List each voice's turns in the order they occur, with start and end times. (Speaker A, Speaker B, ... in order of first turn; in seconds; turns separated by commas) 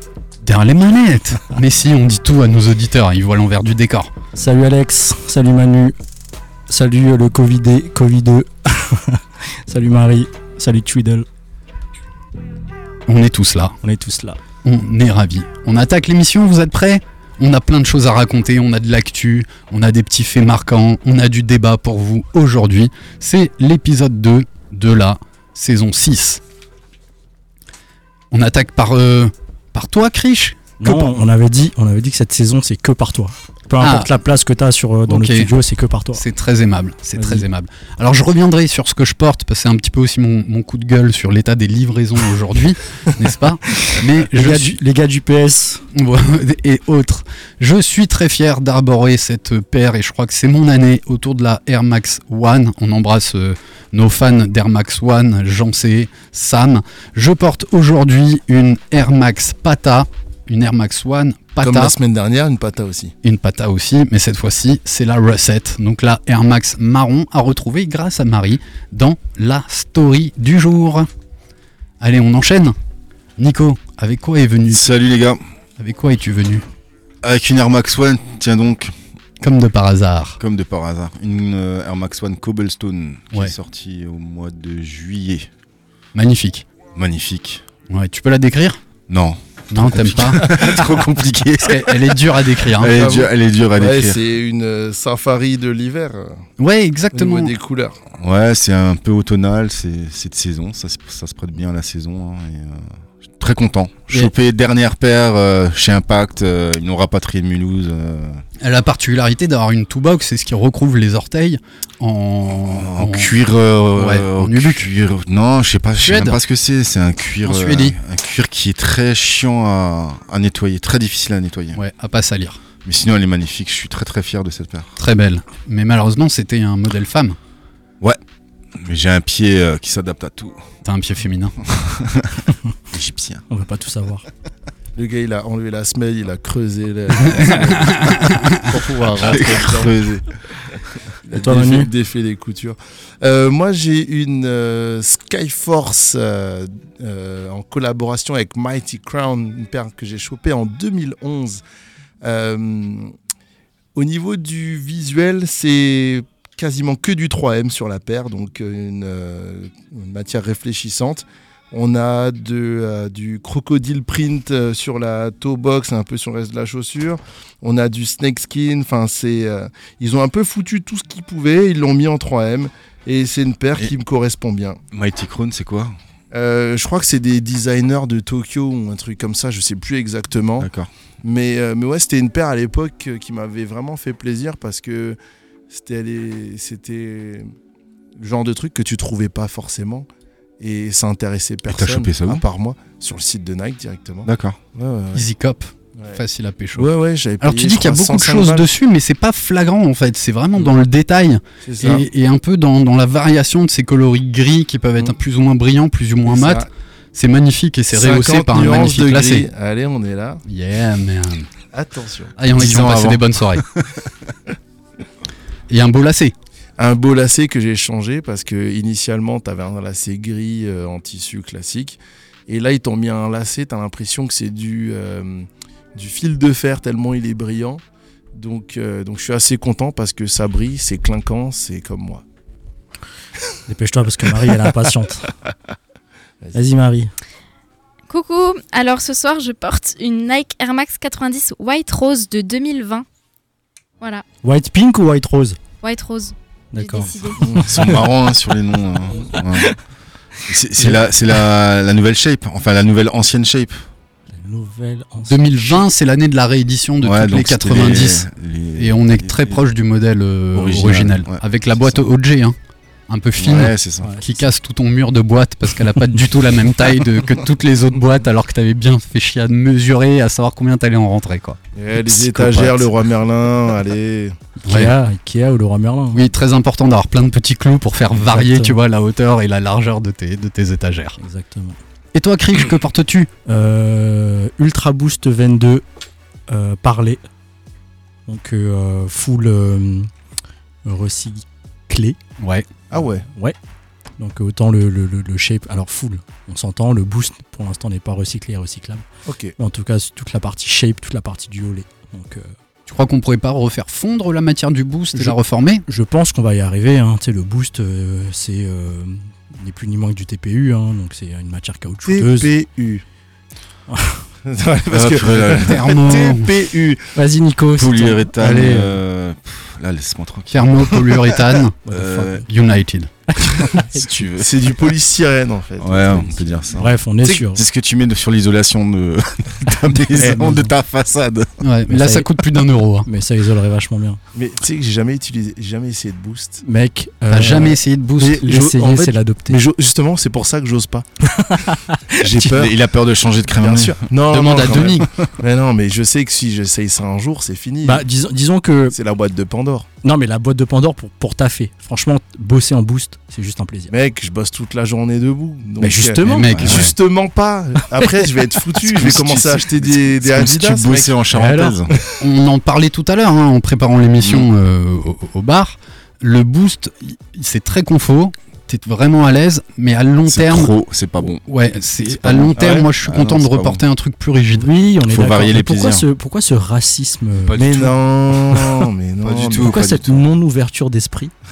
Speaker A: 0.4-4.1, Speaker B: 4.3-6.0, Speaker B: 6.7-11.2, Speaker A: 13.1-13.8, Speaker B: 13.8-14.4, Speaker A: 14.6-26.4, Speaker A: 28.3-31.1, Speaker B: 30.8-36.2, Speaker A: 33.8-34.1, Speaker A: 35.1-35.5, Speaker A: 36.1-44.8, Speaker B: 37.1-37.5, Speaker B: 44.3-45.8, Speaker A: 45.9-62.0, Speaker C: 61.6-63.1, Speaker A: 63.2-71.1, Speaker A: 72.0-72.8, Speaker A: 73.4-74.8, Speaker D: 74.7-75.4, Speaker A: 75.8-76.7, Speaker D: 77.2-78.9, Speaker A: 79.4-80.4, Speaker D: 80.4-85.5, Speaker A: 86.1-86.7, Speaker D: 86.9-87.6, Speaker A: 87.9-88.8, Speaker D: 89.1-92.2, Speaker A: 89.7-90.7, Speaker A: 91.6-93.0, Speaker D: 92.7-94.2, Speaker C: 92.8-96.4, Speaker A: 96.6-97.5, Speaker C: 97.1-98.0, Speaker D: 98.2-108.4, Speaker A: 108.6-113.3, Speaker D: 112.7-121.8, Speaker A: 114.0-114.9, Speaker A: 116.0-116.4, Speaker A: 117.4-118.0, Speaker A: 121.7-122.6, Speaker D: 122.8-124.9, Speaker A: 125.0-127.4, Speaker D: 128.7-130.6, Speaker A: 130.8-131.6, Speaker D: 131.8-133.4, Speaker B: 133.5-134.2, Speaker C: 134.9-138.1, Speaker A: 137.2-138.7, Speaker C: 138.7-140.0, Speaker D: 139.2-140.3, Speaker C: 141.3-151.6, Speaker B: 141.3-141.9, Speaker C: 152.2-153.1, Speaker C: 153.9-174.8, Speaker D: 174.9-175.9, Speaker C: 176.3-180.7, Speaker D: 180.6-180.9, Speaker C: 181.2-185.2, Speaker C: 185.7-187.5, Speaker C: 188.2-190.1, Speaker C: 190.6-195.2, Speaker D: 191.7-192.4, Speaker D: 194.2-194.6, Speaker A: 195.1-196.9, Speaker C: 196.7-198.7, Speaker A: 197.4-209.5, Speaker C: 201.6-202.1, Speaker C: 206.2-206.7, Speaker C: 207.9-210.4, Speaker A: 210.4-211.5, Speaker C: 211.7-212.3, Speaker A: 212.4-213.6, Speaker D: 212.5-214.0, Speaker A: 215.7-216.3, Speaker C: 216.8-227.8, Speaker C: 228.3-232.2, Speaker B: 233.7-235.3, Speaker B: 236.5-237.1, Speaker E: 238.1-243.0, Speaker B: 244.4-245.6, Speaker E: 245.8-247.4, Speaker B: 246.7-248.0, Speaker C: 247.4-247.7, Speaker D: 247.5-249.7, Speaker B: 249.4-249.8, Speaker D: 250.5-253.8, Speaker B: 254.3-255.8, Speaker A: 255.3-262.6, Speaker D: 257.0-259.6, Speaker D: 260.5-262.0, Speaker A: 263.1-271.6, Speaker D: 263.4-264.1, Speaker B: 264.0-264.5, Speaker C: 271.8-274.4, Speaker A: 272.3-272.8, Speaker D: 272.3-272.6, Speaker B: 274.6-276.2, Speaker A: 274.7-274.9, Speaker A: 276.1-281.2, Speaker B: 278.1-278.8, Speaker B: 281.2-281.8, Speaker A: 282.1-283.3, Speaker B: 283.4-285.8, Speaker B: 286.5-287.2, Speaker B: 288.3-290.1, Speaker B: 290.8-292.2, Speaker A: 292.4-292.7, Speaker C: 292.9-293.2, Speaker B: 294.2-299.0, Speaker C: 299.2-299.5, Speaker B: 299.6-302.5, Speaker A: 302.9-305.8, Speaker B: 305.9-312.5, Speaker C: 312.1-313.0, Speaker B: 313.9-314.2, Speaker C: 314.4-317.0, Speaker D: 314.9-316.2, Speaker A: 315.6-316.5, Speaker B: 317.1-319.0, Speaker D: 317.7-321.3, Speaker A: 320.5-321.7, Speaker B: 321.8-322.5, Speaker D: 321.9-322.4, Speaker A: 322.4-323.1, Speaker B: 323.3-324.1, Speaker D: 323.8-324.8, Speaker C: 324.4-326.6, Speaker D: 325.8-326.9, Speaker B: 326.8-327.6, Speaker D: 327.5-331.5, Speaker B: 330.1-330.7, Speaker A: 331.6-333.1, Speaker B: 331.9-332.3, Speaker B: 333.0-334.2, Speaker C: 334.3-336.6, Speaker B: 336.6-339.6, Speaker A: 337.3-338.4, Speaker C: 338.3-341.1, Speaker B: 341.2-342.2, Speaker C: 342.2-342.8, Speaker D: 342.3-344.0, Speaker C: 343.5-348.0, Speaker A: 344.3-345.1, Speaker D: 344.5-345.3, Speaker B: 347.8-348.9, Speaker C: 348.9-349.9, Speaker B: 350.0-353.9, Speaker C: 353.9-361.1, Speaker B: 355.8-356.9, Speaker A: 356.2-356.9, Speaker D: 356.6-356.9, Speaker D: 358.8-362.0, Speaker B: 361.3-361.8, Speaker A: 362.2-370.7, Speaker D: 364.2-364.5, Speaker D: 370.3-371.4, Speaker A: 371.3-374.7, Speaker D: 372.1-373.8, Speaker C: 372.6-372.9, Speaker B: 374.5-377.6, Speaker D: 375.0-376.1, Speaker D: 377.5-377.9, Speaker C: 377.5-379.7, Speaker D: 379.2-380.2, Speaker B: 379.6-381.3